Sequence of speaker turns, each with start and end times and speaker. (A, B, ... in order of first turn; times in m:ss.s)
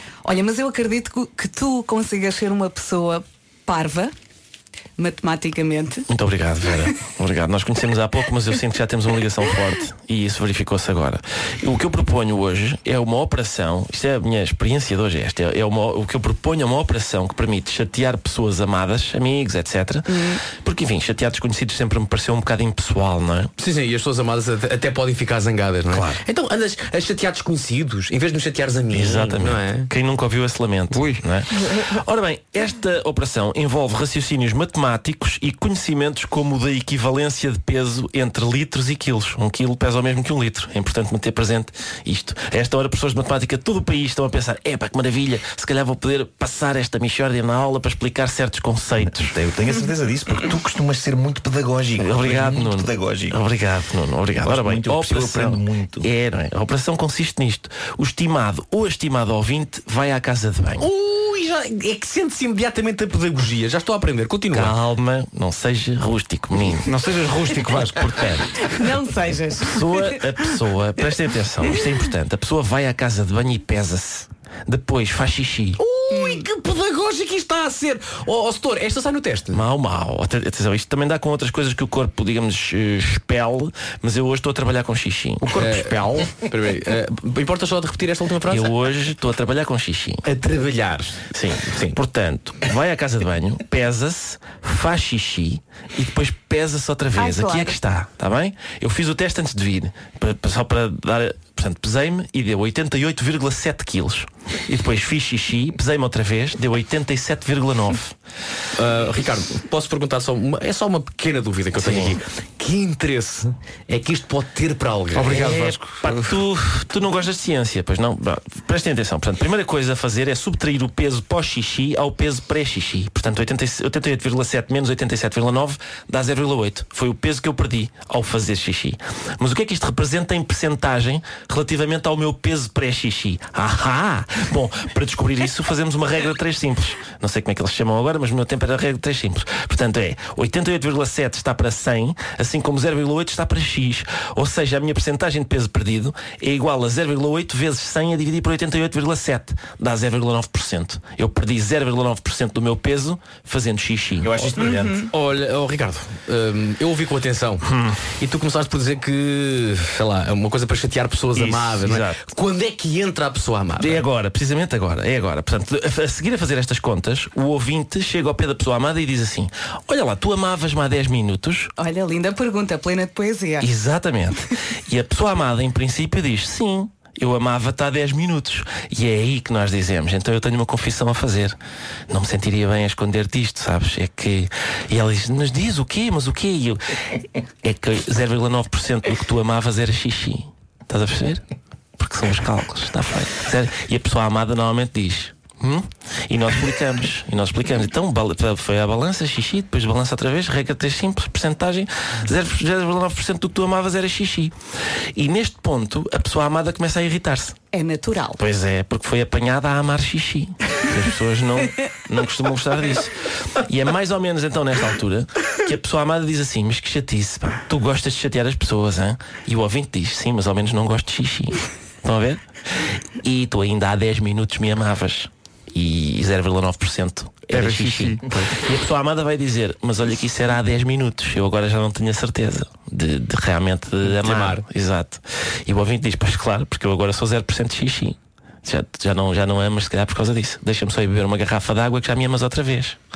0:00.2-0:04.1 A
0:05.0-0:06.0 A
0:06.1-0:23.5 B
0:20.1-0:20.4 A
0:23.6-0:29.9 C
0:25.9-0:26.2 B
0:28.9-0:49.3 B
0:30.9-0:31.2 D
0:49.0-0:53.4 E
0:52.0-1:00.9 B
0:54.4-0:56.1 E
1:00.8-1:04.8 C
1:04.5-1:06.9 B
1:06.8-1:08.1 D
1:07.9-1:08.7 B
1:08.6-1:10.4 A
1:09.6-1:15.8 B
1:15.8-1:19.7 C
1:19.5-1:25.5 B
1:25.4-1:26.3 D
1:25.5-1:28.8 C
1:28.5-1:30.2 B
1:30.2-1:32.0 C
1:31.3-1:48.1 B
1:37.1-1:37.8 A
1:48.7-1:55.5 C
1:51.7-1:52.2 B
1:55.1-1:56.3 D
1:55.3-2:34.6 B
2:34.2-2:35.0 E
2:34.6-2:35.1 A
2:35.0-2:44.0 C
2:37.6-2:38.0 B
2:41.3-2:42.2 B
2:43.8-2:51.7 B
2:51.8-2:53.7 A
2:53.6-3:01.6 B
3:02.1-3:06.9 B
3:07.6-3:11.4 B
3:12.0-3:24.5 B
3:25.1-3:27.6 B
3:27.7-3:28.4 A
3:28.4-4:03.0 B
3:47.5-3:48.6 D
3:54.0-3:54.6 C